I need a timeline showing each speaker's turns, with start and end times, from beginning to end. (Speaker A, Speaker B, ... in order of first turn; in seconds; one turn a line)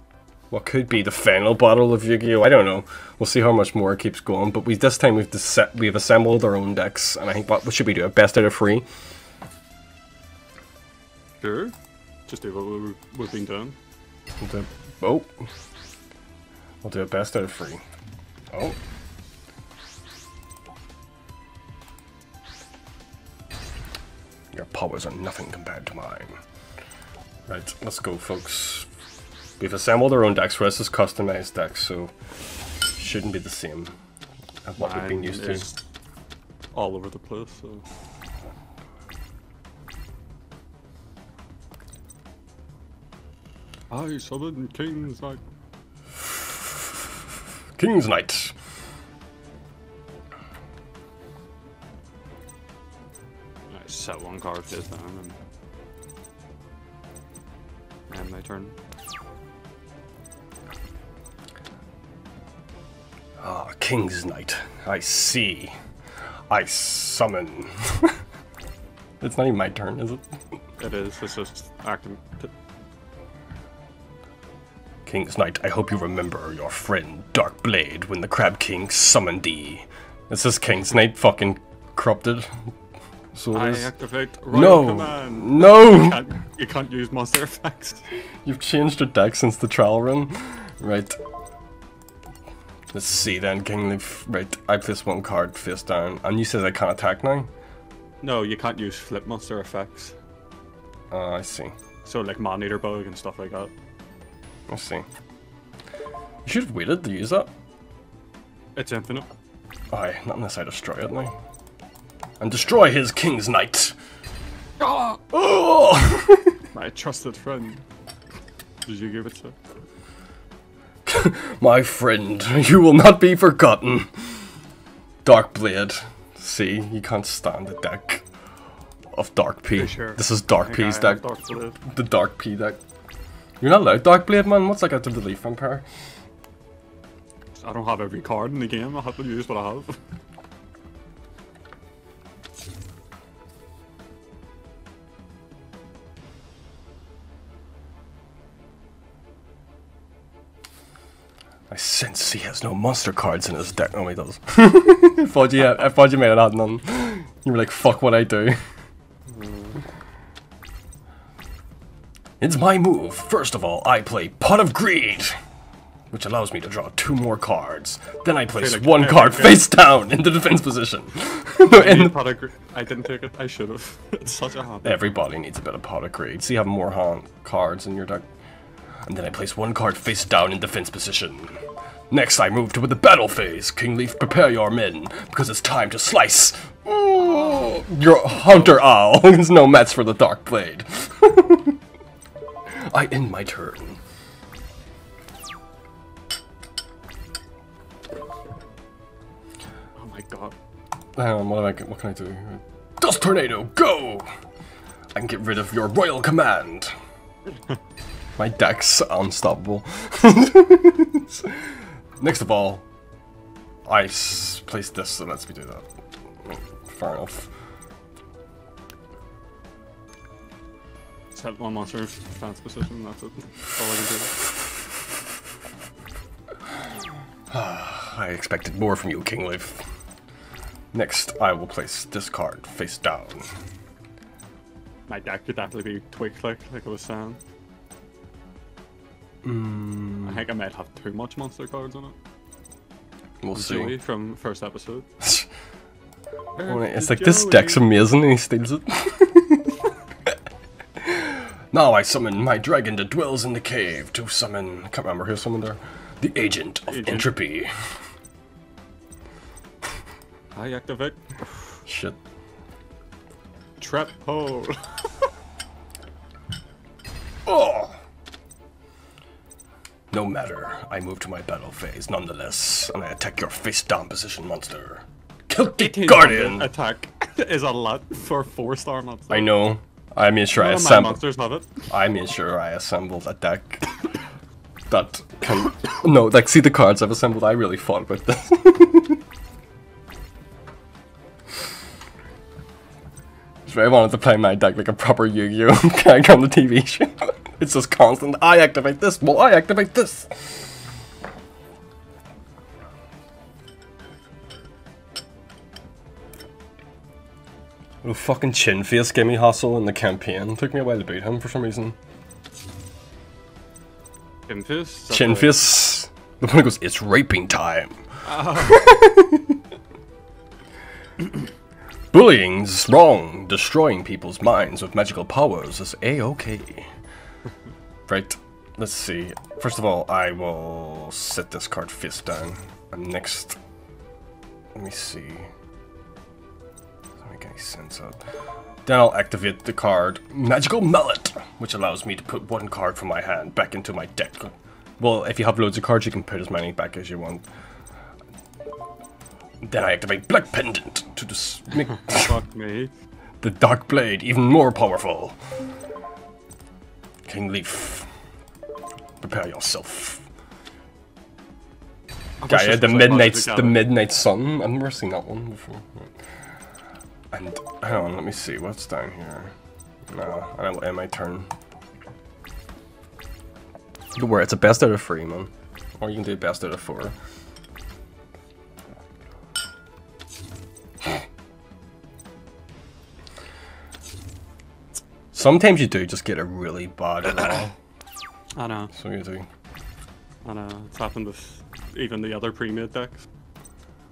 Speaker A: 0.5-8.9
Speaker B: 11.4-11.8
Speaker B: 12.3-13.8
Speaker A: 14.4-15.5
Speaker A: 16.8-17.8
Speaker A: 18.5-18.8
Speaker A: 24.5-26.4
Speaker A: 27.5-28.9
Speaker A: 29.6-32.1
Speaker A: 32.8-34.0
Speaker A: 34.7-35.7
Speaker B: 34.8-35.8
Speaker B: 36.7-37.8
Speaker B: 43.9-45.4
Speaker A: 47.8-48.5
Speaker B: 53.7-55.4
Speaker B: 58.1-58.8
Speaker A: 63.4-65.8
Speaker A: 66.5-68.2
Speaker A: 69.2-70.2
Speaker B: 70.8-72.5
Speaker A: 75.1-82.7
Speaker A: 83.3-83.9
Speaker B: 83.5-88.0
Speaker A: 84.5-86.2
Speaker A: 88.5-91.2
Speaker A: 92.9-97.5
Speaker B: 98.2-100.2
Speaker A: 101.1-101.7
Speaker B: 102.0-103.7
Speaker A: 104.7-105.0
Speaker A: 106.5-107.5
Speaker B: 108.8-109.3
Speaker A: 109.9-111.3
Speaker A: 112.4-114.0
Speaker B: 114.8-115.2
Speaker A: 115.3-116.6
Speaker B: 116.7-117.8
Speaker B: 118.8-119.6
Speaker A: 121.1-124.5
Speaker A: 125.2-128.2
Speaker A: 129.1-131.2
Speaker B: 129.7-131.8
Speaker A: 131.8-132.8
Speaker A: 133.6-135.8
Speaker B: 137.6-140.0
Speaker A: 151.7-158.6
Speaker B: 159.3-159.8
Speaker A: 162.4-165.4
Speaker A: 166.1-172.2
Speaker B: 168.5-169.7
Speaker B: 171.7-175.1
Speaker A: 174.8-178.2
Speaker A: 179.1-191.8
Speaker B: 187.2-187.9
Speaker B: 188.5-188.8
Speaker A: 192.7-194.0
Speaker B: 200.0-200.6
Speaker A: 201.2-204.3
Speaker A: 205.2-206.9
Speaker A: 208.4-212.9
Speaker A: 213.9-215.9
Speaker A: 216.4-217.5
Speaker B: 221.3-224.4
Speaker A: 227.5-229.8
Speaker A: 230.9-233.5
Speaker B: 235.1-237.4
Speaker A: 239.4-240.4
Speaker B: 240.2-242.2
Speaker A: 243.4-244.0
Speaker B: 243.5-245.1
Speaker A: 245.2-245.5
Speaker B: 246.6-247.8
Speaker A: 246.7-249.8
Speaker A: 251.0-257.7
Speaker B: 256.9-257.3
Speaker B: 260.5-261.8
Speaker A: 261.9-262.2
Speaker B: 263.8-265.3
Speaker A: 267.4-268.0
Speaker A: 270.1-276.7
Speaker B: 275.8-279.6
Speaker A: 279.3-281.2
Speaker B: 280.5-281.7
Speaker A: 281.9-283.9
Speaker A: 284.9-289.2
Speaker A: 293.7-300.7
Speaker A: 308.0-311.9
Speaker B: 314.5-315.7
Speaker A: 315.1-319.6
Speaker B: 318.2-318.9
Speaker A: 322.1-326.9
Speaker A: 328.1-333.6
Speaker A: 334.8-335.5
Speaker A: 337.2-338.2
Speaker A: 338.9-347.4
Speaker A: 349.6-352.4
Speaker B: 352.0-352.9
Speaker A: 353.4-355.4
Speaker A: 357.3-358.1
Speaker A: 359.2-360.2
Speaker B: 362.4-363.9
Speaker A: 362.5-366.1
Speaker A: 367.3-369.5
Speaker A: 370.1-371.5
Speaker A: 374.1-377.1
Speaker A: 385.3-387.7
Speaker B: 388.5-388.9
Speaker A: 388.9-389.5
Speaker B: 390.4-393.2